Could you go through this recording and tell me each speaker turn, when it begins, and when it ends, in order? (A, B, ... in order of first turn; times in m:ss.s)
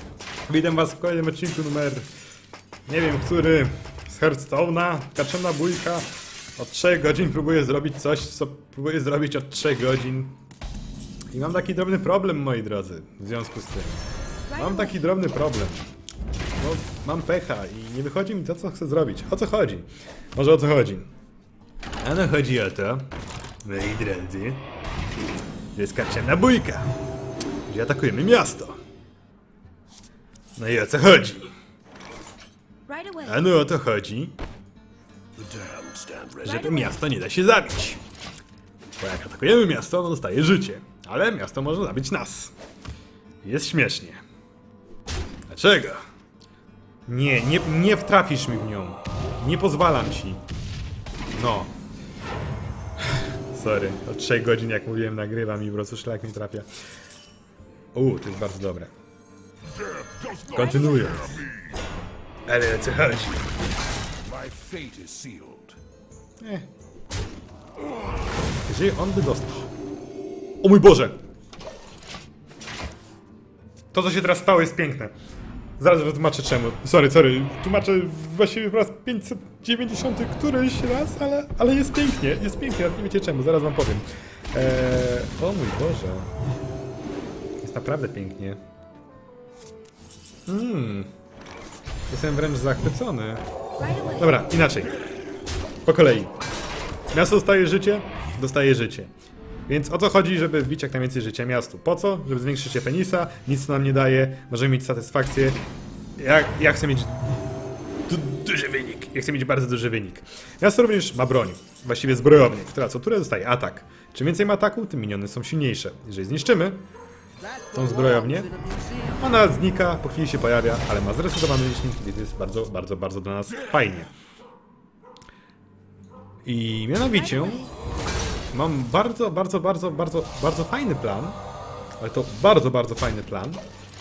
0:00.5-0:02.1 A
0:02.9-0:10.4 A
0:11.3-0:15.8 A
0:14.5-0:14.9 B
0:16.6-0:21.1 A
0:22.0-0:23.1 A
0:23.6-0:24.7 A
0:25.7-0:26.9 A
0:27.7-0:28.8 A
0:30.6-0:31.5 A
0:32.9-0:33.4 B
0:33.2-0:34.3 A
0:35.5-0:36.3 C
0:36.2-0:38.0 A
0:36.5-0:36.9 B
0:39.0-0:42.5 A
0:43.4-0:44.2 A
0:45.5-0:46.0 A
0:47.1-0:50.4 A
0:51.3-0:51.8 A
0:53.1-0:56.7 A
0:57.9-0:58.9 A
1:00.0-1:00.3 C
1:00.4-1:01.5 A
1:02.5-1:03.5 A
1:04.2-1:05.8 C
1:06.4-1:06.7 A
1:08.6-1:09.7 A
1:10.6-1:11.2 A
1:13.9-1:15.1 A
1:15.8-1:26.3 A
1:27.6-1:28.6 A
1:30.5-1:31.1 A
1:32.1-1:33.4 A
1:33.8-1:34.2 B
1:34.0-1:34.9 A
1:35.8-1:36.3 A
1:37.1-1:39.1 A
1:39.7-1:45.6 A
1:46.2-1:47.3 A
1:48.1-1:56.8 A
1:57.7-2:04.1 A
2:06.4-2:07.7 A
2:07.3-2:07.7 B
2:08.5-2:11.4 A
2:12.0-2:13.6 A